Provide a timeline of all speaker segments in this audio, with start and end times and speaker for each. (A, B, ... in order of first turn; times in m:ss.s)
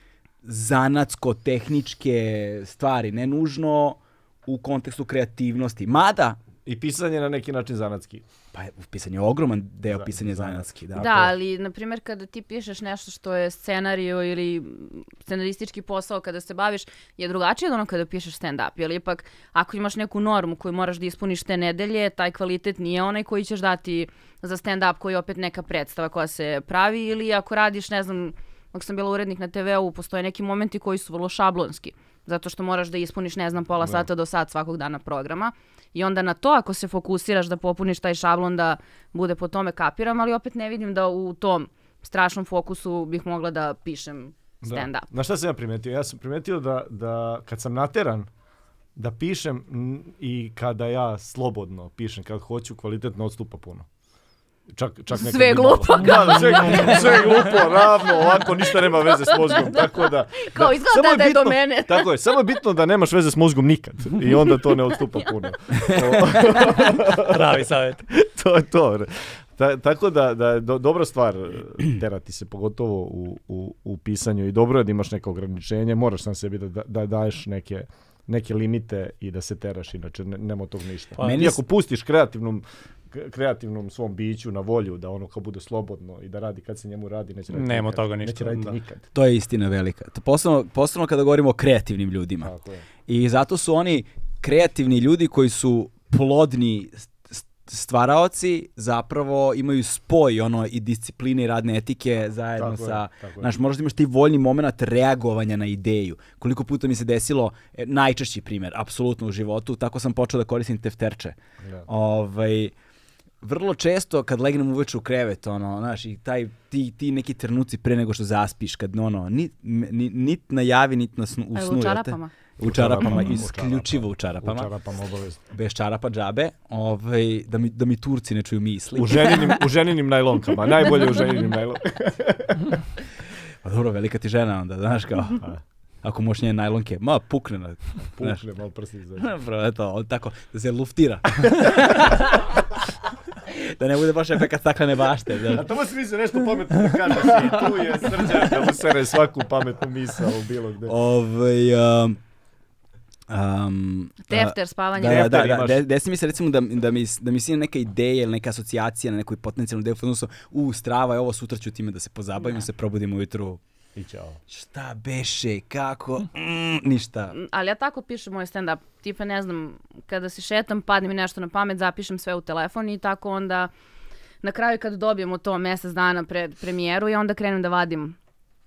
0:00.4-0:06.4 A
0:06.7-0:08.2 B
0:08.5-0:11.3 A
0:09.9-0:10.7 B
0:11.0-0:45.1 C
0:33.8-0:34.1 B
0:44.6-0:48.3 B
0:49.0-0:53.9 B
0:54.7-1:07.4 B
0:55.1-1:02.1 C
1:04.9-1:05.3 C
1:07.2-1:08.0 D
1:08.1-1:29.0 B
1:21.2-1:21.6 D
1:21.2-1:21.6 A
1:27.5-1:28.8 D
1:29.1-1:32.5 A
1:32.4-1:32.8 B
1:33.1-1:52.7 A
1:42.6-1:43.5 B
1:53.4-2:04.7 A
2:01.5-2:02.3 C
2:02.6-2:05.4 B
2:05.5-2:09.5 A
2:09.0-2:12.8 B
2:13.6-2:15.4 A
2:16.0-2:18.4 A
2:18.2-2:19.3 B
2:19.2-2:25.7 A
2:25.5-2:30.9 B
2:30.9-2:32.2 A
2:33.3-2:43.6 A
2:34.2-2:35.3 C
2:35.0-2:35.8 B
2:44.0-2:44.4 B
2:44.5-2:47.4 A
2:47.3-2:53.7 C
2:54.4-2:58.2 C